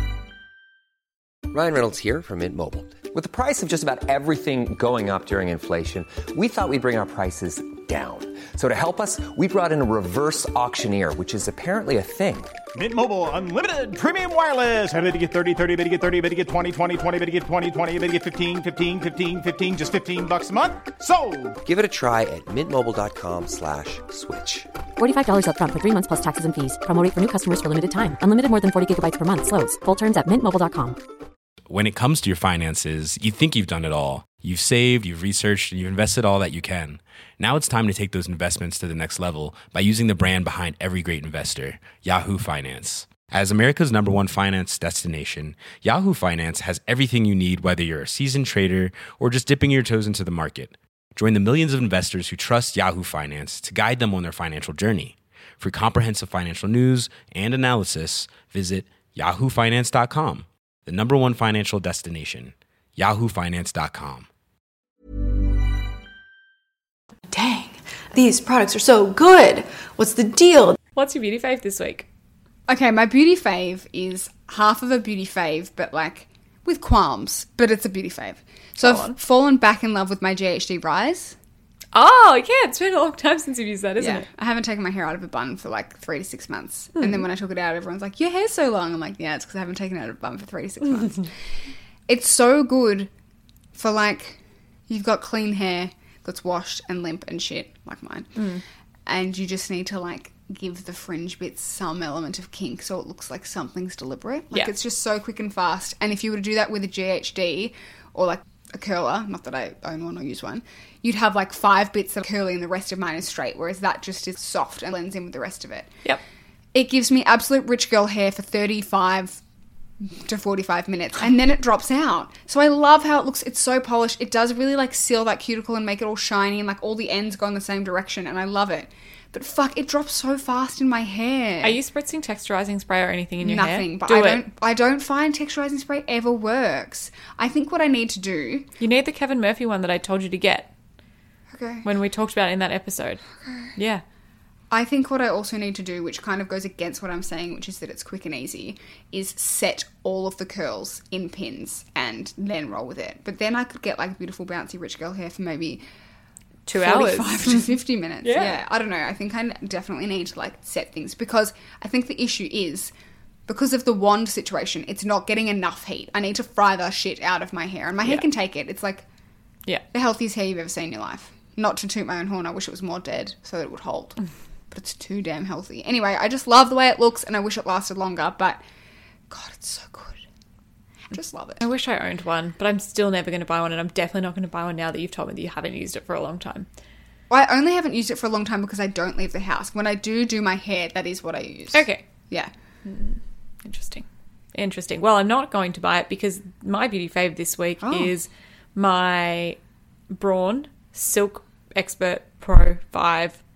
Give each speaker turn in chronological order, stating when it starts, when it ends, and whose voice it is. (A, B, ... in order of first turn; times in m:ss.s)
0:01.5-0:12.5 A
0:12.8-0:21.6 B
0:21.6-0:24.7 A
0:25.0-0:31.0 C
0:31.7-1:04.3 D
1:07.3-1:10.8 E
1:11.0-1:12.1 F
1:12.7-1:21.4 G
1:18.8-1:19.2 F
1:21.9-1:24.3 F
1:24.0-1:31.3 G
1:27.0-1:27.2 F
1:32.1-1:33.1 G
1:33.8-1:38.4 G
1:38.4-1:38.6 F
1:39.1-1:55.9 G
1:56.7-1:59.4 G
2:00.1-2:11.8 G
2:11.6-2:14.5 F
2:13.4-2:18.7 G
2:18.8-2:20.7 F
2:21.5-2:21.9 G
2:21.8-2:23.2 F
2:23.4-2:23.7 G
2:23.8-2:24.0 F
2:24.7-2:35.8 G
2:36.7-2:37.7 F
2:36.7-2:42.9 G
2:38.2-2:38.6 F
2:43.5-2:49.0 G
2:49.9-2:54.2 G
2:54.7-2:58.6 G
2:59.3-3:00.2 G
3:01.1-3:01.6 G
3:01.6-3:06.7 F
3:07.3-3:12.5 G
3:11.7-3:12.0 F
3:12.8-3:19.6 F
3:17.8-3:18.1 G
3:20.1-3:23.4 F